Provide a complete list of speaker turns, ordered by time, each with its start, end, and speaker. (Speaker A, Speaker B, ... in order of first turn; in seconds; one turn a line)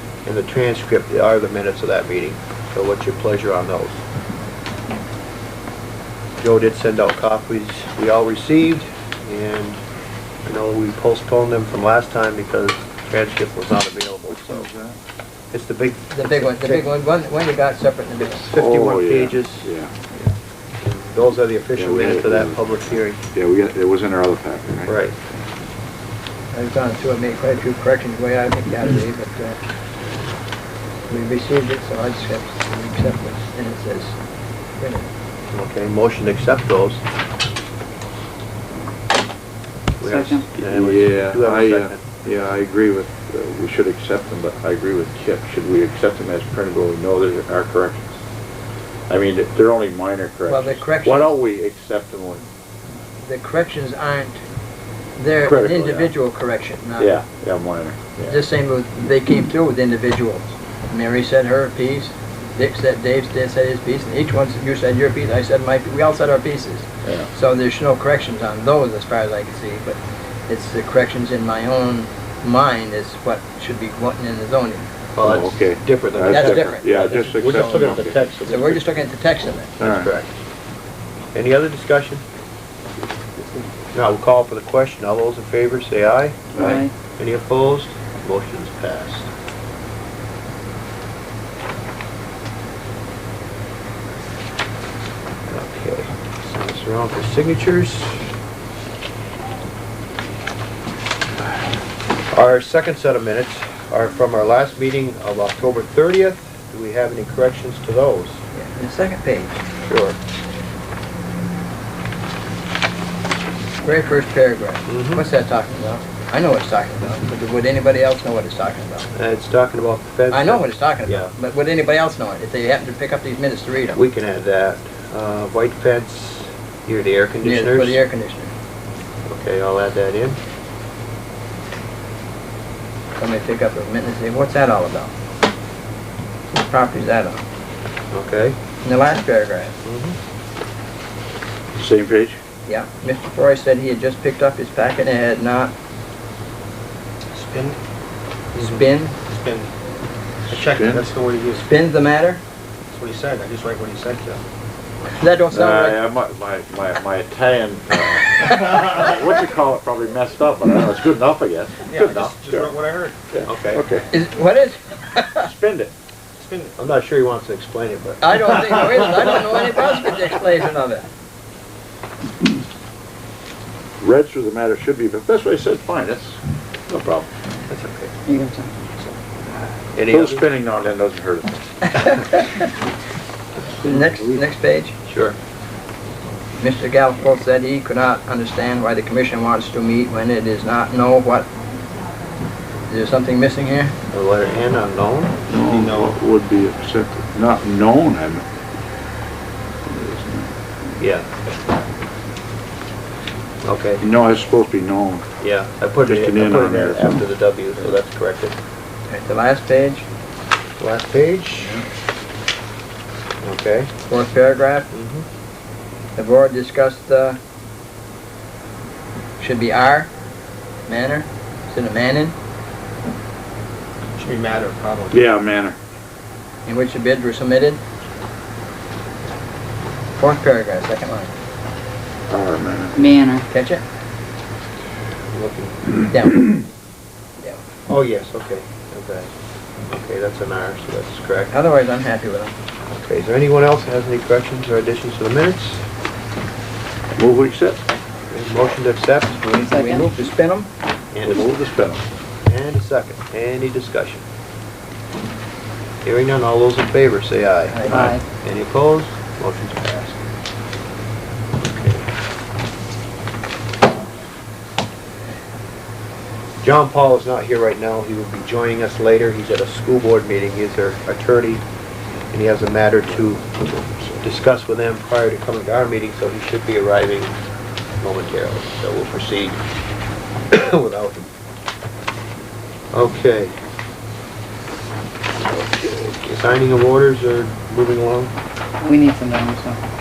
Speaker A: 0.2-4.0
Speaker A: 6.4-9.8
Speaker A: 10.4-14.7
Speaker B: 14.3-15.0
Speaker A: 15.5-16.9
Speaker C: 16.1-18.5
Speaker A: 18.2-19.7
Speaker B: 18.5-19.9
Speaker A: 20.8-23.2
Speaker B: 21.8-22.7
Speaker B: 23.3-25.0
Speaker A: 24.8-25.1
Speaker C: 26.5-29.5
Speaker C: 31.1-34.2
Speaker C: 34.8-35.1
Speaker A: 35.5-37.0
Speaker A: 40.0-42.0
Speaker D: 40.0-40.5
Speaker B: 40.6-48.1
Speaker B: 49.1-52.5
Speaker C: 50.5-51.3
Speaker C: 53.2-54.4
Speaker C: 55.2-57.1
Speaker B: 55.4-56.1
Speaker B: 57.0-58.4
Speaker C: 58.3-74.9
Speaker A: 75.1-79.0
Speaker B: 75.2-78.2
Speaker C: 76.3-79.7
Speaker B: 79.8-80.1
Speaker A: 79.8-80.3
Speaker A: 81.3-82.2
Speaker A: 83.9-86.6
Speaker B: 86.5-86.8
Speaker D: 86.5-86.9
Speaker A: 87.2-89.3
Speaker A: 95.5-98.3
Speaker A: 102.3-108.4
Speaker C: 108.5-109.6
Speaker A: 109.8-110.2
Speaker C: 113.8-119.1
Speaker A: 114.9-115.3
Speaker A: 119.1-121.3
Speaker C: 120.3-124.0
Speaker A: 123.9-128.0
Speaker C: 127.4-128.5
Speaker A: 129.3-130.4
Speaker C: 133.2-135.1
Speaker C: 136.5-137.4
Speaker A: 138.1-138.6
Speaker C: 138.8-139.8
Speaker A: 139.8-140.2
Speaker B: 141.8-142.4
Speaker C: 142.7-145.7
Speaker E: 147.3-147.8
Speaker C: 148.6-149.1
Speaker E: 149.3-149.7
Speaker E: 150.4-151.6
Speaker B: 150.5-151.1
Speaker C: 151.5-152.4
Speaker E: 152.9-154.4
Speaker C: 155.1-156.0
Speaker B: 155.5-162.8
Speaker E: 161.9-163.2
Speaker B: 163.3-164.1
Speaker A: 163.4-163.8
Speaker C: 164.1-165.5
Speaker B: 165.4-165.9
Speaker E: 166.4-166.8
Speaker A: 166.8-169.3
Speaker C: 168.2-171.1
Speaker B: 174.0-176.4
Speaker B: 176.9-177.3
Speaker A: 177.7-178.1
Speaker D: 178.2-178.7
Speaker A: 179.9-180.5
Speaker B: 180.1-181.9
Speaker C: 181.8-182.7
Speaker C: 183.8-184.9
Speaker A: 185.1-185.4
Speaker C: 186.6-191.5
Speaker C: 192.9-193.9
Speaker A: 194.1-195.4
Speaker B: 195.5-198.4
Speaker E: 195.6-196.1
Speaker B: 199.8-200.5
Speaker A: 201.0-201.3
Speaker A: 203.6-204.0
Speaker B: 204.0-205.2
Speaker A: 205.4-208.6
Speaker B: 206.0-207.2
Speaker C: 209.1-210.0
Speaker A: 210.8-211.8
Speaker A: 213.4-213.9
Speaker C: 214.1-214.9
Speaker A: 214.9-215.2
Speaker C: 216.2-217.4
Speaker C: 219.4-220.1
Speaker C: 220.9-222.3
Speaker E: 224.2-225.3
Speaker B: 225.1-225.8
Speaker C: 226.7-227.8
Speaker C: 230.2-231.3
Speaker B: 232.3-233.0
Speaker D: 232.9-233.4
Speaker C: 233.5-233.8
Speaker A: 235.3-235.8
Speaker C: 236.1-236.6
Speaker A: 237.9-239.3
Speaker A: 239.9-241.5
Speaker C: 241.5-242.5
Speaker A: 242.9-245.8
Speaker B: 247.2-247.8
Speaker A: 248.3-249.4
Speaker C: 249.4-250.7
Speaker D: 249.5-250.1
Speaker A: 251.1-251.5
Speaker B: 251.2-252.0
Speaker A: 252.4-254.2
Speaker A: 256.0-260.2
Speaker C: 257.7-258.1
Speaker D: 257.9-258.2
Speaker A: 261.6-262.0
Speaker A: 266.6-271.6
Speaker A: 272.3-277.4
Speaker A: 278.0-279.6
Speaker A: 280.5-281.3
Speaker A: 282.9-283.6
Speaker A: 285.4-288.3
Speaker D: 288.8-289.8